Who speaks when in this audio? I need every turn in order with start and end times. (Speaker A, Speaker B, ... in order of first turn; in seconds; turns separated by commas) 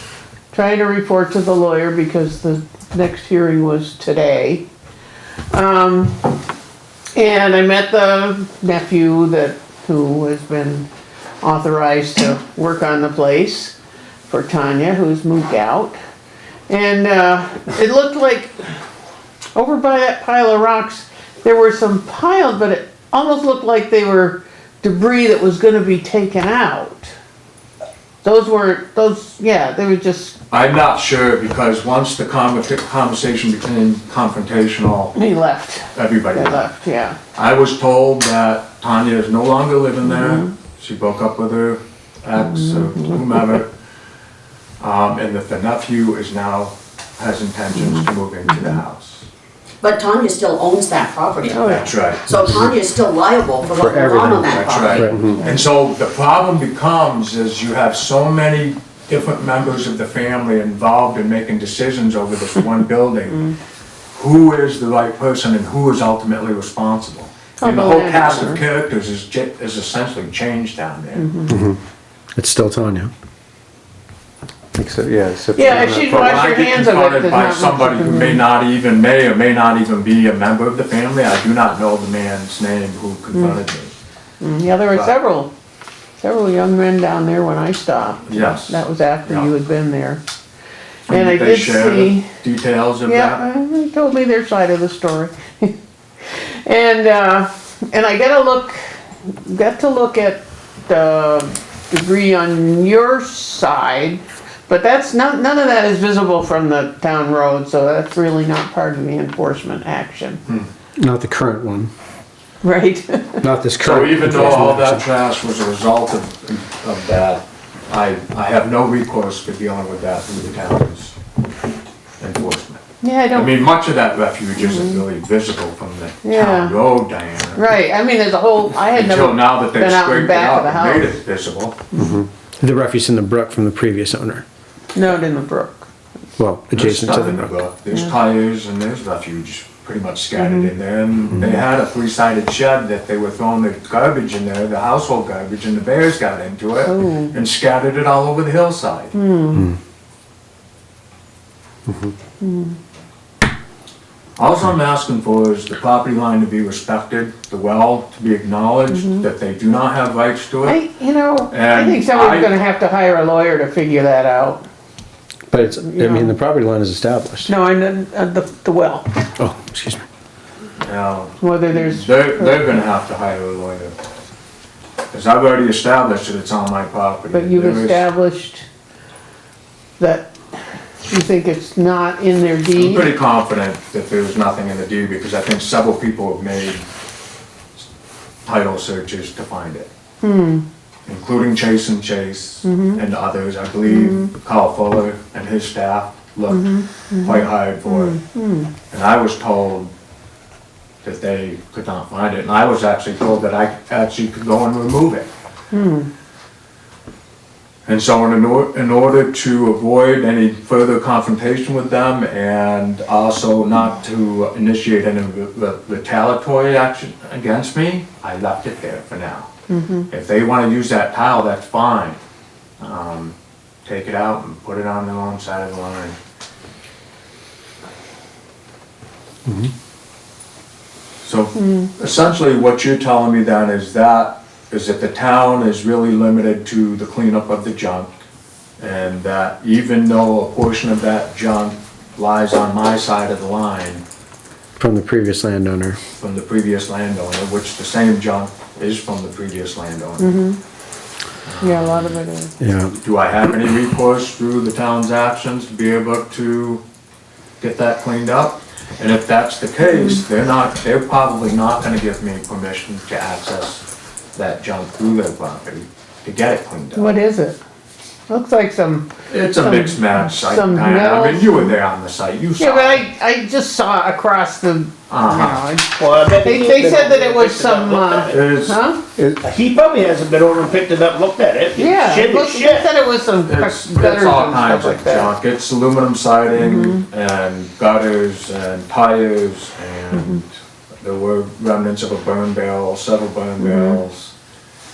Speaker A: 0.5-4.7, Speaker A: 5.5-6.3, Speaker A: 7.2-10.9, Speaker A: 11.4-13.8, Speaker A: 14.3-16.0, Speaker A: 16.7-18.5, Speaker A: 19.6-27.1, Speaker A: 28.2-30.4, Speaker B: 30.5-35.2, Speaker A: 35.1-37.2, Speaker B: 35.9-36.7, Speaker B: 37.3-43.7, Speaker A: 40.0-40.5, Speaker A: 42.4-43.4, Speaker B: 44.8-49.3, Speaker A: 47.8-48.8, Speaker C: 50.0-51.6, Speaker A: 51.4-51.9, Speaker B: 51.6-52.3, Speaker C: 52.3-55.1, Speaker D: 53.6-55.0, Speaker E: 53.7-55.4, Speaker B: 54.4-63.5, Speaker B: 64.2-71.3, Speaker A: 67.6-68.6, Speaker A: 71.2-71.6, Speaker E: 71.5-71.8, Speaker E: 72.4-73.1, Speaker E: 74.8-76.3, Speaker A: 75.6-78.4, Speaker B: 75.8-83.9, Speaker A: 84.4-85.5, Speaker A: 86.2-90.2, Speaker B: 88.3-89.5, Speaker B: 91.1-93.4, Speaker A: 91.1-92.3, Speaker A: 93.0-95.8, Speaker A: 96.3-110.4, Speaker E: 111.0-111.9, Speaker A: 112.6-113.5, Speaker E: 113.4-115.0, Speaker B: 113.8-121.2, Speaker A: 114.2-114.8, Speaker B: 122.2-127.6, Speaker A: 123.0-123.6, Speaker A: 124.6-125.0, Speaker A: 126.2-126.8, Speaker A: 127.6-131.2, Speaker B: 128.9-131.8, Speaker A: 131.9-132.2, Speaker E: 132.0-134.4, Speaker A: 134.9-135.9, Speaker E: 136.4-137.6, Speaker B: 136.7-149.1, Speaker A: 140.4-140.7, Speaker A: 146.8-147.3, Speaker A: 149.1-149.7, Speaker A: 152.4-152.8, Speaker B: 154.4-160.8, Speaker A: 158.9-159.2, Speaker A: 160.7-164.7, Speaker B: 161.5-162.5, Speaker E: 165.5-167.5, Speaker A: 165.6-166.4, Speaker A: 167.5-169.1, Speaker E: 169.4-170.0, Speaker B: 170.8-173.9, Speaker A: 171.4-172.7, Speaker B: 175.1-178.1, Speaker A: 177.3-178.7, Speaker A: 180.0-183.1, Speaker B: 182.7-186.8, Speaker B: 188.4-189.9, Speaker A: 190.2-190.7, Speaker B: 191.1-198.2, Speaker A: 192.7-193.0, Speaker A: 193.9-194.3, Speaker A: 196.5-198.7, Speaker B: 198.9-199.9, Speaker B: 201.0-205.3, Speaker A: 205.7-206.1, Speaker B: 207.9-219.5, Speaker A: 219.7-220.1, Speaker B: 220.1-222.2, Speaker B: 222.8-226.2, Speaker E: 229.5-229.7, Speaker B: 231.2-238.1, Speaker A: 231.6-231.9, Speaker B: 238.8-244.0, Speaker E: 244.8-246.0, Speaker B: 246.2-250.4, Speaker A: 250.2-250.6, Speaker B: 251.4-252.2, Speaker A: 251.6-252.5, Speaker E: 252.6-253.0, Speaker B: 253.0-256.8, Speaker B: 257.6-263.8, Speaker A: 259.9-260.2, Speaker B: 264.4-267.1, Speaker A: 266.9-267.6, Speaker A: 268.3-271.8, Speaker B: 269.3-273.0, Speaker A: 272.6-279.0, Speaker B: 275.1-275.7, Speaker D: 275.9-278.4, Speaker B: 278.3-278.8, Speaker D: 279.4-282.9, Speaker A: 281.8-285.3, Speaker B: 283.5-290.5, Speaker A: 286.6-287.1, Speaker A: 290.1-290.4, Speaker B: 291.0-294.3, Speaker A: 293.6-294.0